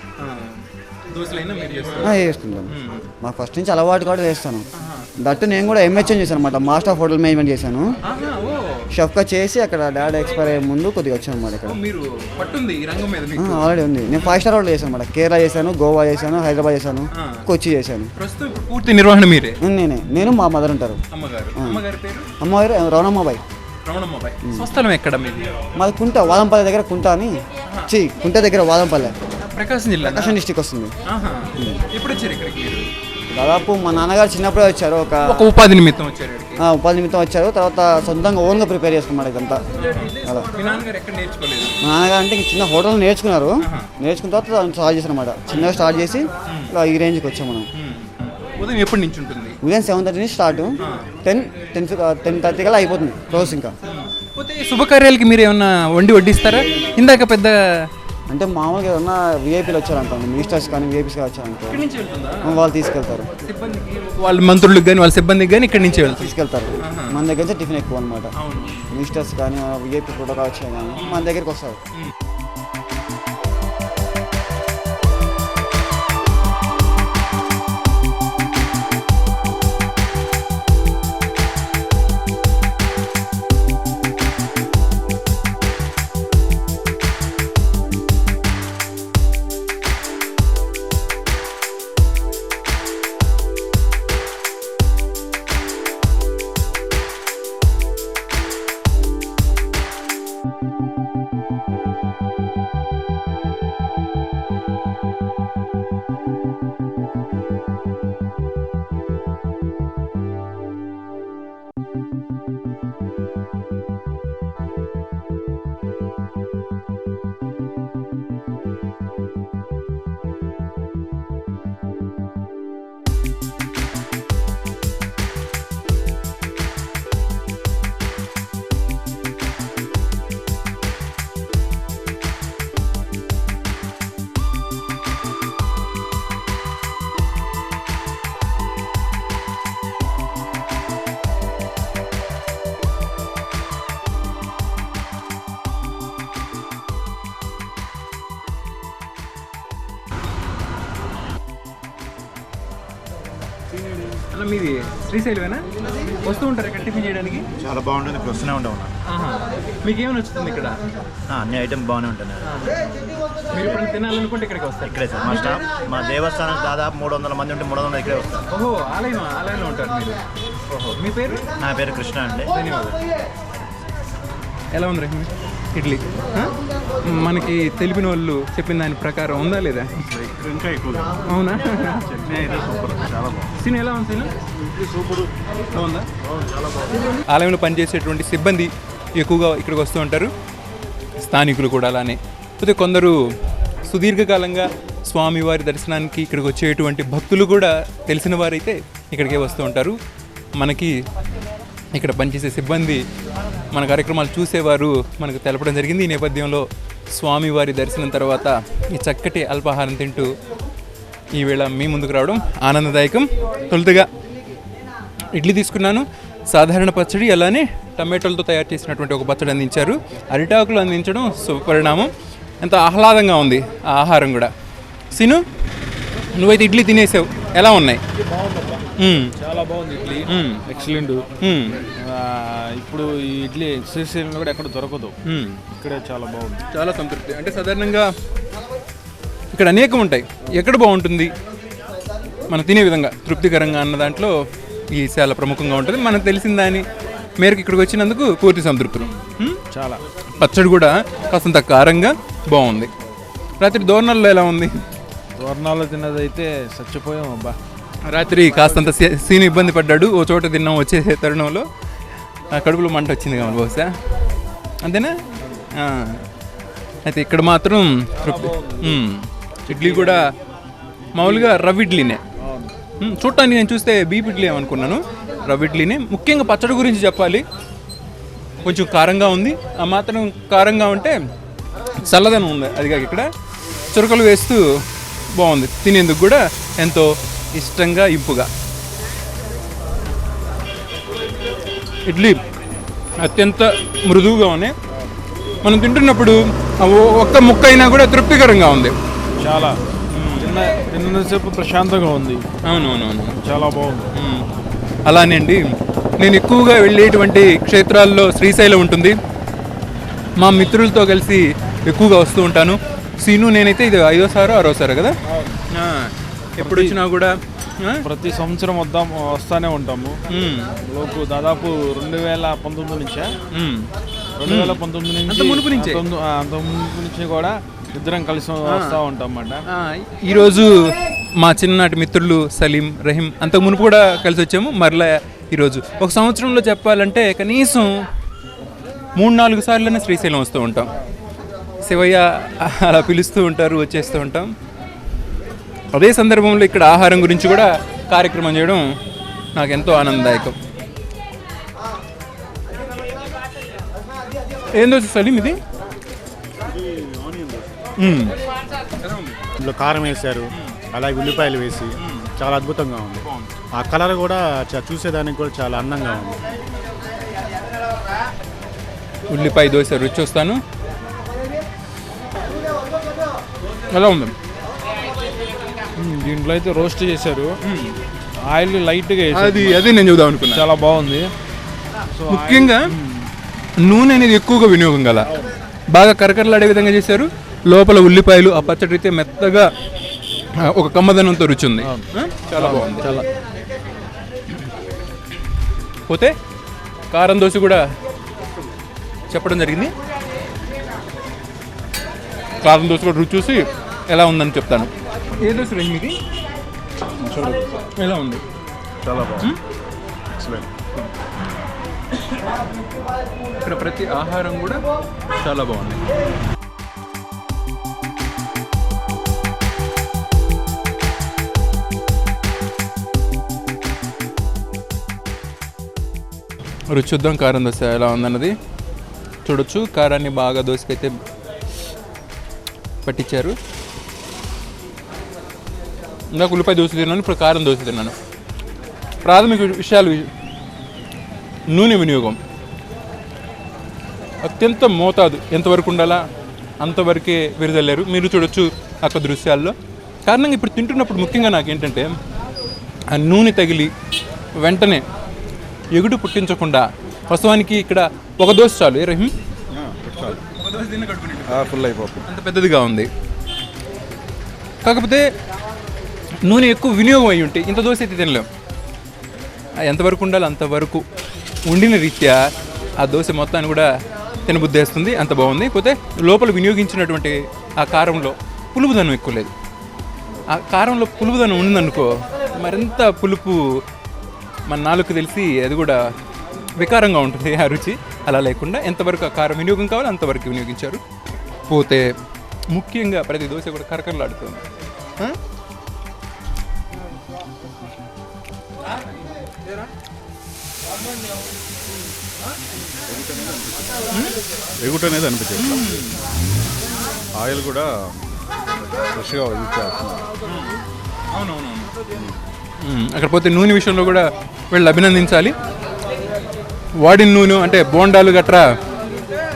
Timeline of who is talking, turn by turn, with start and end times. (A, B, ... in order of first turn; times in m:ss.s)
0:00.2-0:03.1 A
0:02.0-0:04.6 B
0:04.7-0:05.1 A
0:05.2-0:07.9 B
0:08.0-0:08.8 A
0:08.9-0:11.8 B
0:11.7-0:14.4 A
0:13.4-0:18.1 B
0:17.1-0:17.4 A
0:18.2-0:19.6 A
0:19.6-0:21.0 B
0:21.1-0:22.3 A
0:22.4-0:23.4 B
0:23.8-0:25.5 A
0:24.4-0:24.7 B
0:25.7-0:27.4 B
0:27.9-0:29.2 B
0:29.4-0:30.4 A
0:30.0-0:30.9 B
0:31.1-0:32.9 A
0:33.3-0:35.5 B
0:35.2-0:36.6 A
0:36.6-0:39.6 B
0:39.8-0:41.8 A
0:40.2-0:40.5 B
0:41.8-0:47.7 B
0:43.6-0:43.9 A
0:47.8-0:49.6 A
0:49.6-0:53.7 B
0:50.8-0:51.1 A
0:53.3-0:57.8 A
0:58.3-1:01.8 B
1:01.7-1:02.5 A
1:02.4-1:03.3 B
1:03.4-1:06.3 A
1:06.0-1:08.3 B
1:06.8-1:07.2 A
1:08.4-1:08.8 A
1:08.9-1:11.8 B
1:11.0-1:11.3 A
2:34.3-2:35.6 A
2:36.2-2:37.4 A
2:37.6-2:38.9 C
2:39.1-2:40.8 A
2:41.3-2:42.4 C
2:43.5-2:45.5 A
2:44.9-2:48.4 C
2:48.5-2:50.2 A
2:50.8-2:51.4 A
2:51.6-2:52.5 C
2:52.5-2:52.9 A
2:54.7-2:59.9 A
3:00.5-3:01.0 D
3:01.2-3:02.6 A
3:02.6-3:03.4 D
3:03.6-3:04.3 A
3:05.7-3:06.1 A
3:07.2-3:10.3 A
3:11.2-3:13.2 A
3:13.8-3:20.0 A
3:20.6-3:20.9 A
3:21.9-3:23.0 A
3:23.7-3:30.3 A
3:31.3-3:34.1 A
3:35.3-3:44.5 A
3:45.1-3:45.4 A
3:46.3-3:48.0 A
3:48.3-3:48.8 E
3:49.0-3:49.3 A
3:49.4-3:51.3 E
3:50.3-3:50.6 A
3:51.4-3:51.8 A
3:52.0-3:55.1 E
3:55.3-3:55.6 A
3:55.8-3:56.6 E
3:56.7-3:58.1 A
3:59.5-4:01.3 A
4:02.5-4:04.3 A
4:04.9-4:06.8 A
4:07.4-4:09.6 A
4:09.7-4:10.0 E
4:10.4-4:12.9 A
4:13.6-4:14.8 A
4:15.4-4:17.6 E
4:18.1-4:21.6 A
4:22.5-4:23.9 A
4:24.8-4:25.2 A
4:25.8-4:26.2 A
4:27.0-4:30.2 A
4:28.4-4:28.8 E
4:29.8-4:30.1 E
4:31.1-4:32.2 A
4:32.4-4:32.7 E
4:33.0-4:37.4 A
4:38.6-4:41.2 A
4:42.0-4:43.3 A
4:43.9-4:44.6 A
4:45.3-4:48.5 A
4:52.0-4:52.4 A
4:53.2-4:54.7 A
4:55.6-4:58.9 A
4:59.4-4:59.8 E
5:00.1-5:00.6 A
5:00.4-5:02.4 E
5:02.6-5:03.4 A
5:03.4-5:04.1 E
5:04.1-5:04.4 A
5:05.0-5:05.7 A
5:06.2-5:09.2 A
5:10.4-5:15.2 A
5:15.7-5:18.0 A
5:16.6-5:16.9 E
5:18.0-5:20.2 E
5:20.3-5:20.7 A
5:20.8-5:23.3 E
5:23.5-5:23.9 A
5:24.4-5:29.6 E
5:24.4-5:26.0 A
5:28.7-5:29.0 A
5:29.7-5:37.9 A
5:39.1-5:40.9 A
5:41.8-5:44.5 A
5:45.9-5:48.8 A
5:49.5-5:50.6 A
5:54.7-5:55.6 A
5:56.9-5:57.6 D
5:58.0-5:58.4 A
5:59.0-5:59.4 A
5:59.6-6:03.2 D
6:02.0-6:02.3 A
6:03.2-6:03.5 A
6:03.8-6:06.4 D
6:09.3-6:10.6 A
6:13.9-6:14.3 A
6:16.0-6:17.5 E
6:17.6-6:17.9 A
6:18.5-6:19.9 E
6:19.3-6:20.6 A
6:20.5-6:21.3 E
6:22.1-6:23.3 E
6:22.3-6:22.8 A
6:23.8-6:25.3 A
6:25.9-6:29.7 A
6:30.7-6:33.1 A
6:32.6-6:33.2 E
6:36.1-6:36.3 A
6:37.1-6:37.8 A
6:39.3-6:39.9 A
6:42.6-6:46.2 A
6:47.5-6:48.4 A
6:49.0-6:49.5 D
6:50.4-6:50.7 D
6:53.6-6:54.8 A
6:55.3-6:56.0 A
7:06.9-7:08.5 A
7:09.4-7:11.1 A
7:13.0-7:13.5 A
7:16.3-7:18.1 A
7:19.2-7:20.3 A
7:21.7-7:22.4 A
7:24.4-7:26.2 A
7:26.8-7:29.7 A
7:30.2-7:32.1 A
7:33.1-7:33.9 A
7:34.6-7:35.0 A
7:35.9-7:39.3 A
7:39.8-7:40.4 D
7:40.4-7:43.1 A
7:41.5-7:42.2 D
7:44.8-7:45.2 A
7:46.4-7:48.5 A
7:49.8-7:51.0 A
7:51.6-7:52.4 A
7:53.0-7:53.9 A
7:54.4-7:59.5 A
8:00.5-8:03.6 A
8:04.7-8:06.0 A
8:06.8-8:11.0 A
8:11.7-8:12.1 A
8:12.7-8:14.6 A
8:23.1-8:24.0 D
8:24.8-8:25.8 D
8:25.6-8:26.2 A
8:27.3-8:27.9 D
8:29.1-8:30.2 D
8:30.4-8:30.8 A
8:31.3-8:31.9 A
8:32.8-8:35.5 A
8:37.0-8:38.6 A